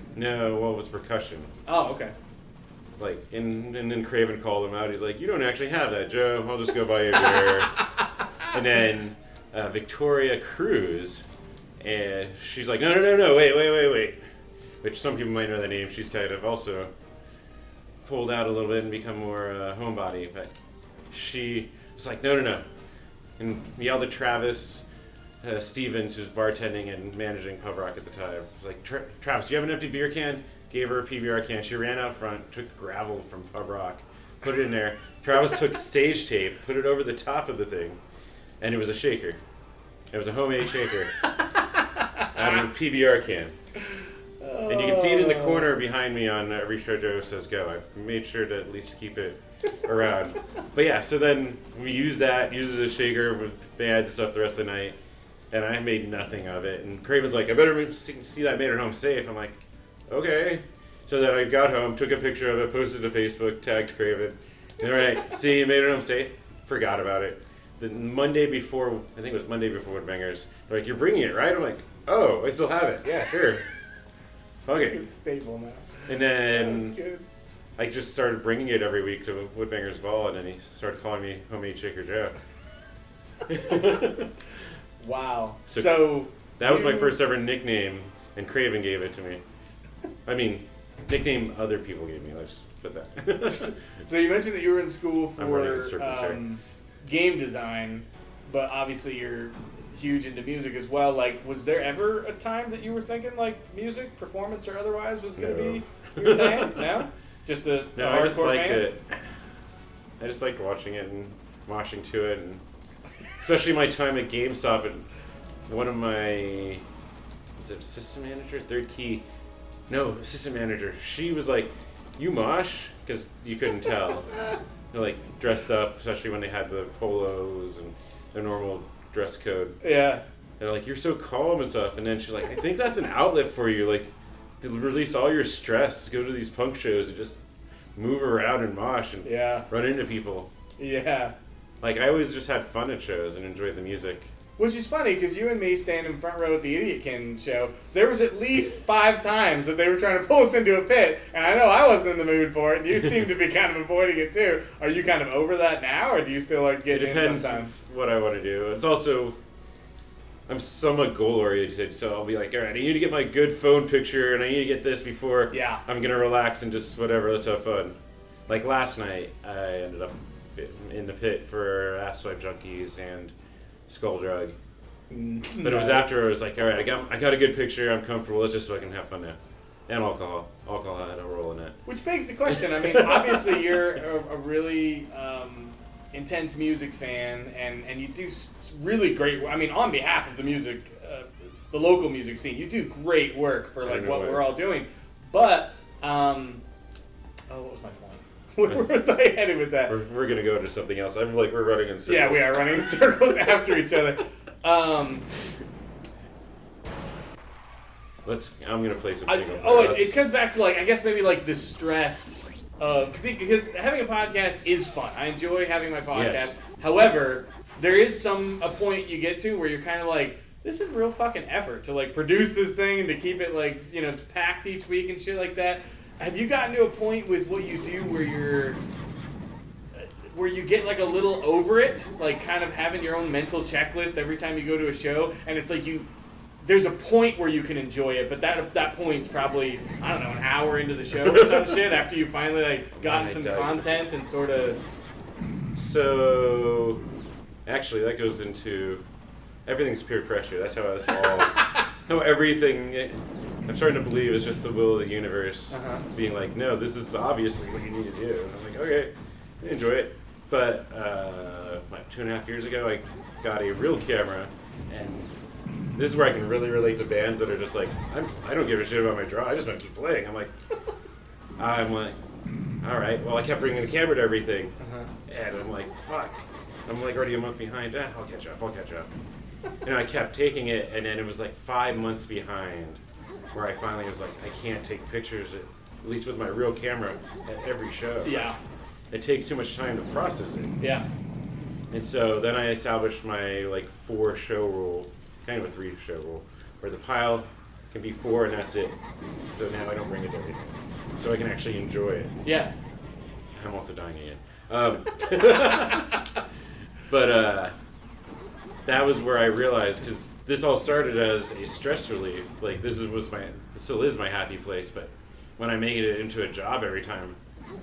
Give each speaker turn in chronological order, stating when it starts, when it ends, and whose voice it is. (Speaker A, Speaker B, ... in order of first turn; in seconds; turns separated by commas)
Speaker A: 0.1-1.5, Speaker B: 1.7-2.1, Speaker A: 3.0-7.8, Speaker B: 7.3-7.6, Speaker A: 8.4-11.2, Speaker A: 11.8-14.2, Speaker A: 14.8-16.9, Speaker A: 18.0-20.5, Speaker A: 21.1-22.6, Speaker A: 23.4-24.9, Speaker A: 25.4-38.0, Speaker A: 38.6-39.4, Speaker A: 40.1-41.1, Speaker B: 42.0-42.5, Speaker A: 42.3-43.6, Speaker B: 43.8-45.8, Speaker A: 44.7-55.0, Speaker A: 55.5-59.6, Speaker A: 60.1-73.7, Speaker A: 74.7-75.0, Speaker B: 74.8-77.3, Speaker A: 76.1-77.0, Speaker A: 77.8-82.4, Speaker A: 83.5-84.3, Speaker B: 85.0-87.2, Speaker A: 85.7-89.4, Speaker A: 90.3-93.8, Speaker B: 93.5-108.9, Speaker A: 95.4-96.4, Speaker A: 105.4-106.9, Speaker A: 108.0-109.3, Speaker A: 110.2-112.6, Speaker A: 113.4-115.1, Speaker A: 115.7-116.8, Speaker A: 117.6-119.2, Speaker A: 119.9-124.3, Speaker A: 124.9-129.8, Speaker B: 129.8-130.2, Speaker A: 130.6-137.4, Speaker A: 138.0-140.5, Speaker B: 139.2-139.7, Speaker B: 140.8-141.3, Speaker A: 141.8-144.3, Speaker B: 144.6-157.7, Speaker A: 156.9-159.4, Speaker A: 160.5-168.0, Speaker B: 165.5-165.8, Speaker A: 168.5-173.3, Speaker A: 173.9-174.6, Speaker B: 175.1-176.3, Speaker A: 175.6-181.8, Speaker B: 181.9-196.6, Speaker A: 182.5-183.8, Speaker A: 193.8-194.5, Speaker B: 197.5-199.9, Speaker A: 199.9-202.9, Speaker B: 202.1-205.3, Speaker A: 208.2-210.2, Speaker B: 209.3-228.8, Speaker A: 216.1-216.6, Speaker B: 229.9-236.1, Speaker B: 236.6-244.8, Speaker A: 241.2-241.9, Speaker A: 242.9-244.1, Speaker A: 245.8-247.0, Speaker A: 247.7-249.0, Speaker A: 249.7-265.3, Speaker B: 251.2-251.8, Speaker B: 255.7-256.1, Speaker A: 265.9-270.5, Speaker A: 271.6-272.2, Speaker A: 272.8-274.7, Speaker B: 274.8-275.1, Speaker A: 275.3-279.1, Speaker A: 279.8-283.0, Speaker A: 283.5-288.5, Speaker B: 288.2-288.6, Speaker A: 289.1-290.8, Speaker B: 290.8-291.1, Speaker A: 291.9-299.0, Speaker A: 299.5-302.3, Speaker B: 302.4-302.7, Speaker A: 303.6-306.2, Speaker B: 305.6-306.0, Speaker A: 307.1-307.8, Speaker A: 308.9-317.4